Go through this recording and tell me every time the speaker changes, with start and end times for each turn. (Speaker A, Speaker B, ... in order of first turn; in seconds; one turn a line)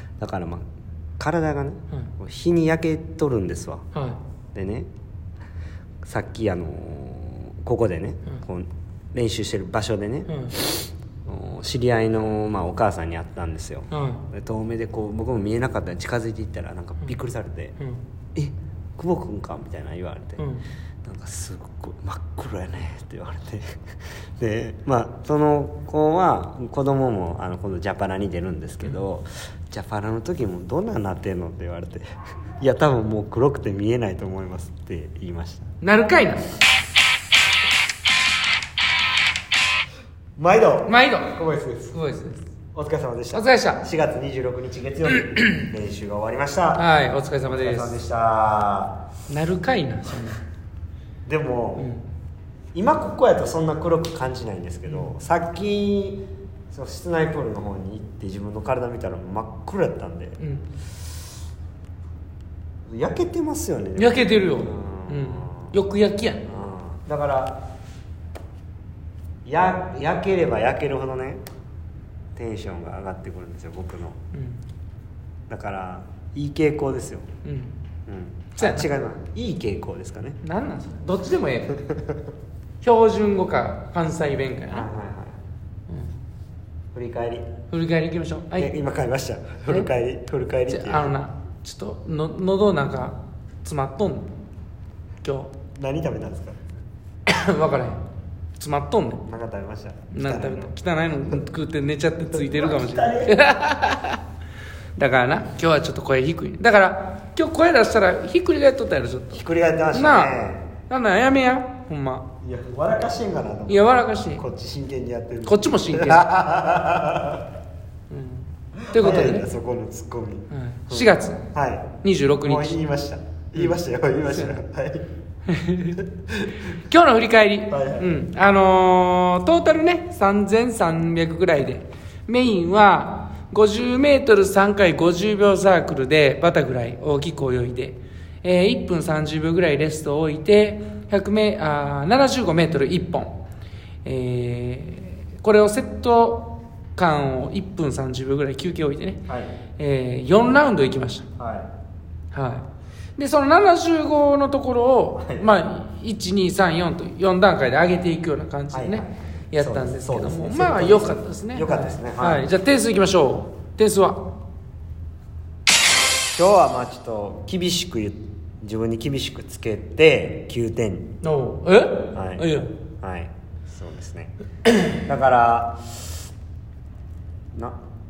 Speaker A: 0.2-0.6
Speaker A: 1.2-3.9
Speaker B: 3.9-4.2
Speaker A: 4.5-4.9
Speaker A: 6.0-17.8
Speaker B: 10.3-10.6
Speaker B: 13.9-14.3
Speaker B: 17.8-18.1
Speaker A: 18.4-20.5
Speaker B: 20.4-20.7
Speaker A: 21.0-23.8
Speaker A: 24.4-32.0
Speaker A: 32.6-35.7
Speaker B: 35.8-36.5
Speaker A: 40.4-42.0
Speaker B: 40.9-41.4
Speaker B: 41.9-42.4
Speaker A: 42.7-46.9
Speaker B: 43.3-43.8
Speaker B: 46.8-48.0
Speaker A: 47.5-49.0
Speaker B: 49.3-50.4
Speaker A: 51.3-51.9
Speaker B: 51.8-52.1
Speaker A: 52.7-60.4
Speaker B: 60.4-60.7
Speaker A: 62.9-65.7
Speaker B: 64.0-66.5
Speaker A: 66.5-67.6
Speaker A: 69.5-71.4
Speaker A: 72.4-74.2
Speaker B: 74.3-74.6
Speaker A: 75.5-77.3
Speaker B: 77.4-77.8
Speaker A: 78.1-80.4
Speaker B: 78.6-78.9
Speaker B: 80.4-81.9
Speaker B: 82.8-84.9
Speaker A: 84.7-85.4
Speaker B: 85.9-86.1
Speaker A: 86.9-87.5
Speaker B: 87.7-88.7
Speaker A: 88.6-91.2
Speaker B: 90.7-94.3
Speaker B: 95.2-95.5
Speaker A: 95.8-96.6
Speaker B: 97.3-98.0
Speaker B: 98.6-99.2
Speaker A: 99.2-100.7
Speaker B: 100.1-104.2
Speaker A: 102.3-103.4
Speaker B: 105.0-109.4
Speaker A: 109.3-110.7
Speaker B: 109.9-110.3
Speaker B: 110.9-112.3
Speaker A: 112.4-117.5
Speaker B: 113.7-114.4
Speaker B: 115.5-116.3
Speaker B: 118.1-119.5
Speaker A: 118.9-125.1
Speaker B: 120.5-121.5
Speaker B: 122.0-122.8
Speaker B: 125.5-126.1
Speaker B: 126.7-143.4
Speaker A: 127.7-128.2
Speaker B: 144.0-149.2
Speaker A: 149.3-149.6
Speaker B: 149.8-151.3
Speaker A: 151.4-151.7
Speaker B: 152.3-164.3
Speaker A: 155.2-155.5
Speaker A: 158.7-162.5
Speaker A: 166.3-171.2
Speaker B: 171.2-172.7
Speaker A: 172.1-176.2
Speaker A: 177.5-177.8